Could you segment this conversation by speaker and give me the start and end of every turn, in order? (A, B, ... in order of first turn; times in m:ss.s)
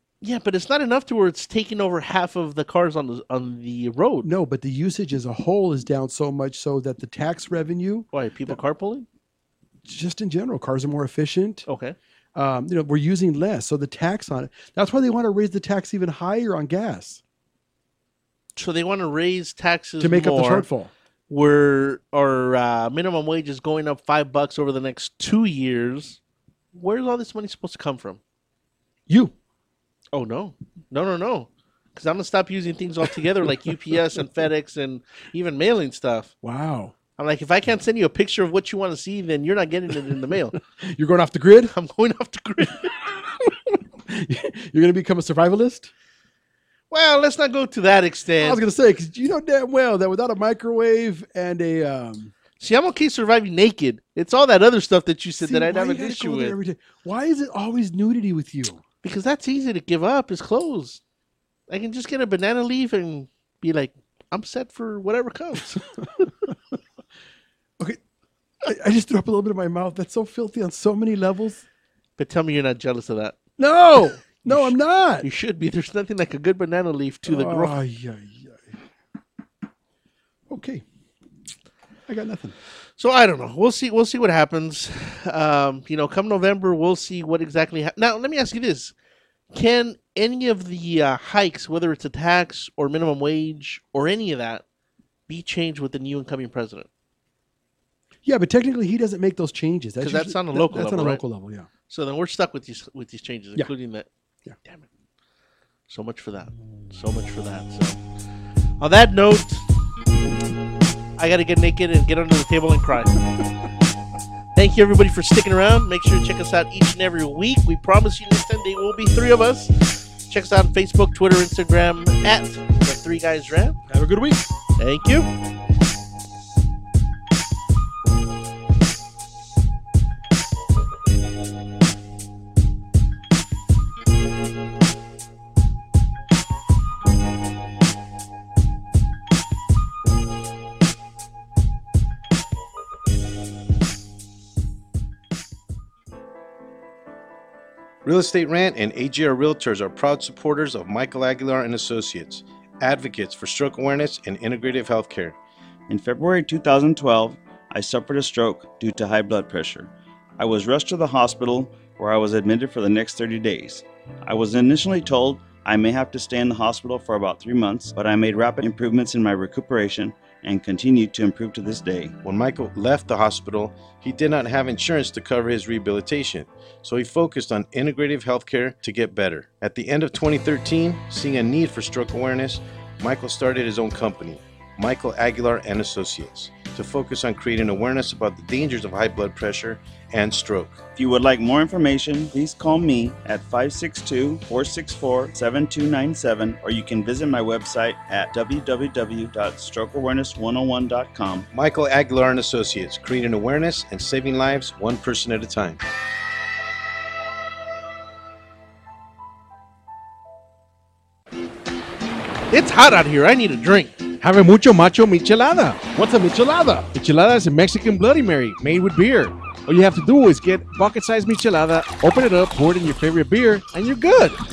0:00.2-0:04.3 A
0:04.2-0:08.6 B
0:08.1-0:09.1 A
0:09.8-0:11.6 B
0:11.7-0:12.0 A
0:12.4-0:17.2 B
0:18.6-0:20.7 A
0:20.0-0:20.9 B
0:21.3-0:26.2 A
0:26.7-0:28.2 A
0:29.1-0:29.3 B
0:30.1-0:36.3 A
0:36.4-0:36.9 B
0:37.2-0:40.6 A
0:40.8-0:41.7 B
0:41.7-0:43.0 A
0:44.1-0:45.9 B
0:46.9-0:48.6 A
0:48.4-0:52.3 B
0:52.6-0:56.6 A
0:55.4-0:58.8 B
0:59.0-1:01.0 A
1:01.7-1:05.8 A
1:08.6-1:11.6 B
1:12.2-1:13.4 A
1:13.6-1:15.3 B
1:14.4-1:17.8 A
1:17.3-1:18.8 B
1:20.5-1:20.8 B
1:22.1-1:22.6 B
1:23.0-1:28.9 A
1:29.5-1:34.6 A
1:35.3-1:36.9 A
1:38.2-1:41.7 B
1:40.0-1:41.2 A
1:41.9-1:44.1 A
1:45.9-1:48.0 A
1:48.8-1:49.6 A
1:51.2-1:53.2 A
1:54.6-2:03.8 A
2:03.9-2:04.5 B
2:04.8-2:05.3 A
2:28.0-2:35.4 C
2:35.9-2:52.2 D
2:52.2-3:10.8 C
3:10.9-3:21.5 D
3:21.5-3:25.8 C
3:32.5-3:34.0 A
3:34.2-3:35.8 E
3:35.9-3:36.9 B
3:36.9-3:44.4 E